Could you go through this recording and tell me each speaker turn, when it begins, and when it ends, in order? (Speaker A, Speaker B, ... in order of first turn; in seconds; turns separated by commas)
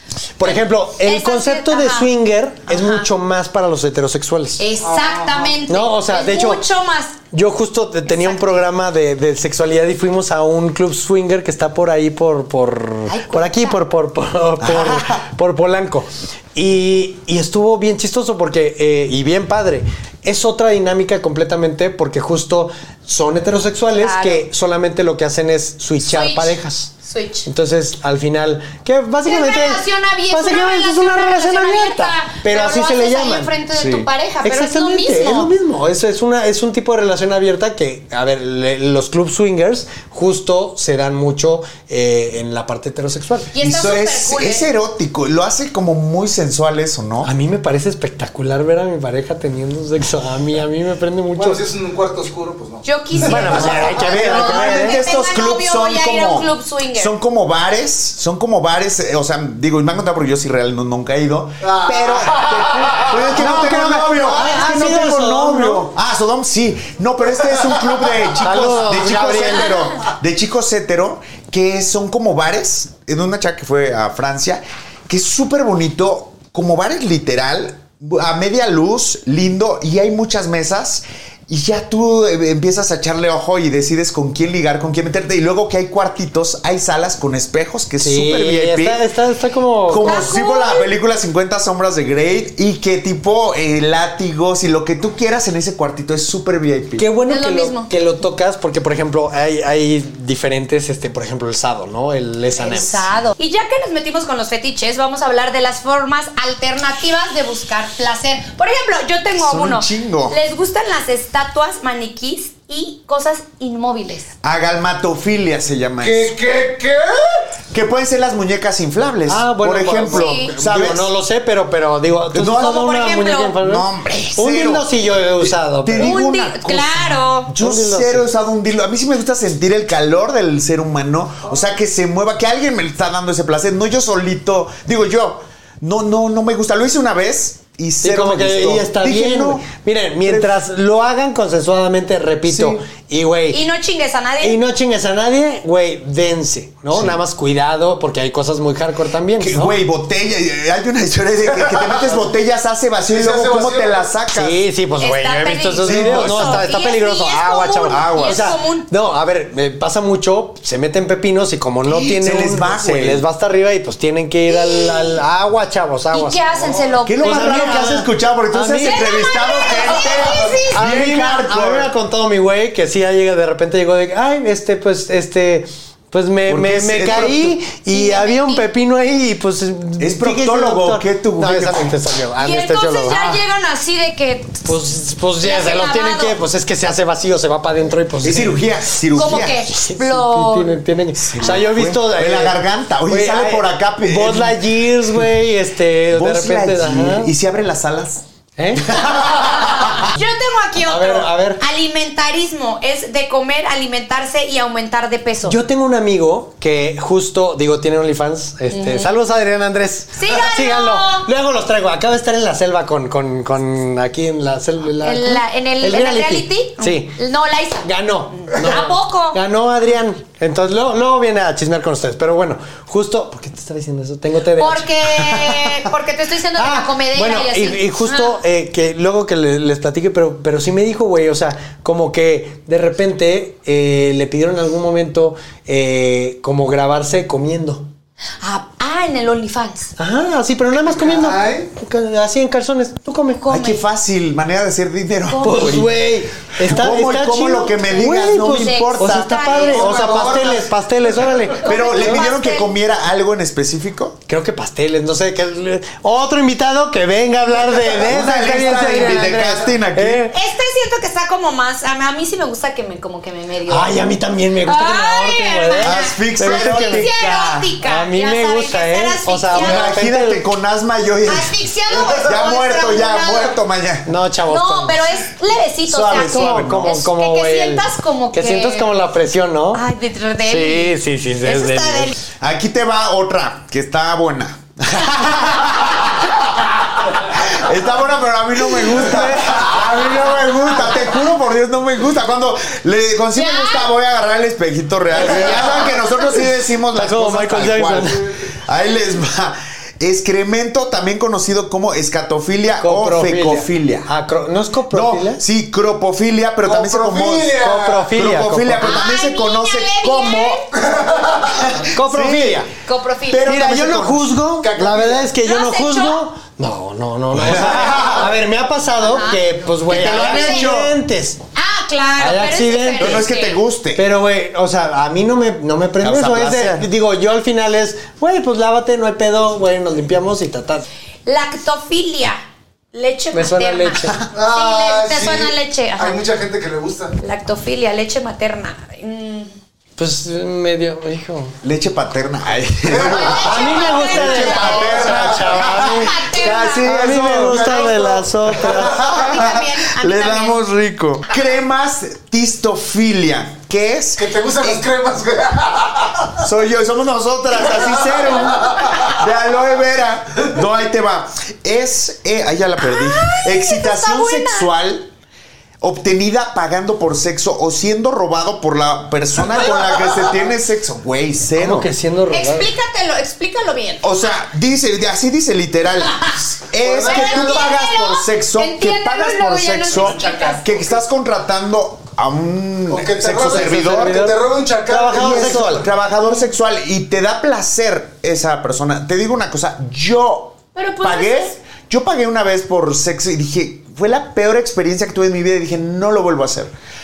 Speaker A: 0.4-4.6, Speaker B: 0.4-2.1, Speaker B: 2.7-3.0, Speaker B: 4.6-7.2, Speaker C: 4.8-5.6, Speaker A: 5.7-6.6, Speaker A: 7.3-26.9, Speaker B: 8.1-8.6, Speaker B: 13.1-13.8, Speaker D: 14.6-15.2, Speaker B: 23.9-24.4, Speaker B: 26.0-27.5, Speaker A: 27.4-43.5, Speaker B: 29.2-35.5, Speaker B: 43.5-44.7, Speaker D: 43.6-47.3, Speaker A: 47.2-51.6, Speaker C: 51.3-53.9, Speaker B: 52.8-57.1, Speaker A: 53.2-55.0, Speaker D: 53.5-89.0, Speaker C: 61.6-63.4, Speaker A: 63.3-65.9, Speaker C: 67.7-68.1, Speaker A: 68.4-69.8, Speaker A: 88.0-90.3, Speaker D: 89.9-97.1, Speaker B: 90.0-90.9, Speaker A: 97.0-103.1, Speaker B: 97.3-97.9, Speaker B: 102.5-114.3, Speaker D: 109.4-110.4, Speaker D: 114.4-116.3, Speaker C: 116.0-117.5, Speaker D: 117.7-121.1, Speaker A: 119.2-126.2, Speaker B: 120.1-120.5, Speaker D: 122.3-123.1, Speaker B: 122.6-123.6, Speaker D: 123.6-124.9, Speaker D: 125.4-139.7, Speaker B: 126.0-127.5, Speaker A: 127.6-128.3, Speaker A: 138.0-143.6, Speaker D: 140.2-140.5, Speaker D: 142.4-142.8, Speaker B: 143.5-144.6, Speaker A: 144.4-149.8, Speaker D: 146.9-147.2, Speaker D: 149.4-154.6, Speaker C: 151.5-152.3, Speaker C: 153.0-154.1, Speaker A: 154.3-166.6, Speaker B: 155.0-158.9, Speaker D: 155.8-156.7, Speaker D: 157.9-158.6, Speaker D: 161.8-163.2, Speaker B: 164.5-165.2, Speaker B: 166.1-167.9, Speaker D: 167.1-171.9, Speaker A: 167.2-169.3, Speaker B: 168.8-170.8, Speaker A: 170.7-183.4, Speaker D: 176.4-177.6, Speaker B: 177.9-178.7, Speaker D: 180.0-181.9, Speaker B: 182.4-184.6, Speaker A: 184.6-188.7, Speaker B: 185.4-186.4, Speaker D: 188.2-189.8, Speaker B: 189.1-190.8, Speaker A: 189.2-197.3, Speaker D: 191.2-195.2, Speaker D: 196.1-198.2, Speaker A: 198.6-199.8, Speaker D: 198.9-200.0, Speaker B: 199.6-205.6, Speaker A: 200.8-201.6, Speaker A: 205.4-217.2, Speaker B: 208.7-209.1, Speaker B: 210.1-211.3, Speaker B: 215.0-217.9, Speaker A: 217.8-225.7, Speaker B: 218.5-219.4, Speaker B: 224.6-228.3, Speaker A: 226.5-237.9, Speaker B: 238.4-239.9, Speaker A: 240.0-243.5, Speaker C: 240.9-241.7, Speaker B: 243.3-243.8, Speaker D: 243.5-245.9, Speaker B: 245.3-245.8, Speaker A: 245.4-252.3, Speaker D: 246.6-250.5, Speaker B: 248.4-250.5, Speaker C: 249.7-250.7, Speaker B: 251.6-252.7, Speaker D: 251.6-254.2, Speaker A: 254.3-260.4, Speaker D: 258.0-260.2, Speaker B: 260.3-263.9, Speaker A: 263.7-270.4, Speaker B: 264.6-269.9, Speaker D: 265.8-267.7, Speaker D: 269.5-274.1, Speaker B: 271.2-273.6, Speaker A: 274.1-275.2, Speaker B: 274.5-278.9, Speaker D: 275.8-276.9, Speaker A: 276.1-279.8, Speaker B: 279.7-282.1, Speaker A: 280.4-282.1, Speaker D: 282.4-304.1, Speaker A: 288.8-290.9, Speaker B: 293.3-293.9, Speaker A: 295.2-295.6, Speaker A: 296.9-298.3, Speaker C: 298.1-298.5, Speaker A: 302.8-305.4, Speaker D: 304.9-311.0, Speaker C: 306.6-308.1, Speaker A: 307.5-309.0, Speaker B: 308.8-310.7, Speaker C: 310.8-311.7, Speaker D: 311.6-312.6, Speaker A: 311.9-312.7, Speaker B: 312.9-313.6, Speaker D: 313.3-314.3, Speaker A: 313.4-321.4, Speaker C: 314.6-315.3, Speaker B: 315.4-316.2, Speaker D: 317.3-318.2, Speaker B: 319.0-320.7, Speaker D: 319.9-320.9, Speaker B: 321.5-323.6, Speaker A: 322.2-323.3, Speaker D: 323.0-324.0, Speaker A: 323.9-330.8, Speaker D: 326.0-326.8, Speaker B: 331.2-332.4, Speaker B: 332.9-336.2, Speaker A: 333.3-334.2, Speaker C: 334.3-337.1, Speaker B: 337.2-339.5, Speaker A: 340.0-341.6, Speaker D: 341.6-354.8, Speaker C: 342.9-345.3, Speaker B: 343.0-350.6, Speaker A: 343.4-349.1, Speaker C: 354.2-356.3, Speaker D: 356.4-365.1, Speaker C: 357.7-359.2, Speaker B: 362.8-364.7, Speaker D: 365.8-371.9, Speaker A: 371.6-372.7, Speaker B: 372.3-374.0, Speaker D: 374.0-384.2, Speaker C: 376.8-377.7, Speaker B: 377.0-380.8, Speaker C: 382.9-385.6, Speaker A: 383.4-385.9, Speaker D: 385.1-396.7, Speaker B: 386.2-386.5, Speaker B: 390.7-391.6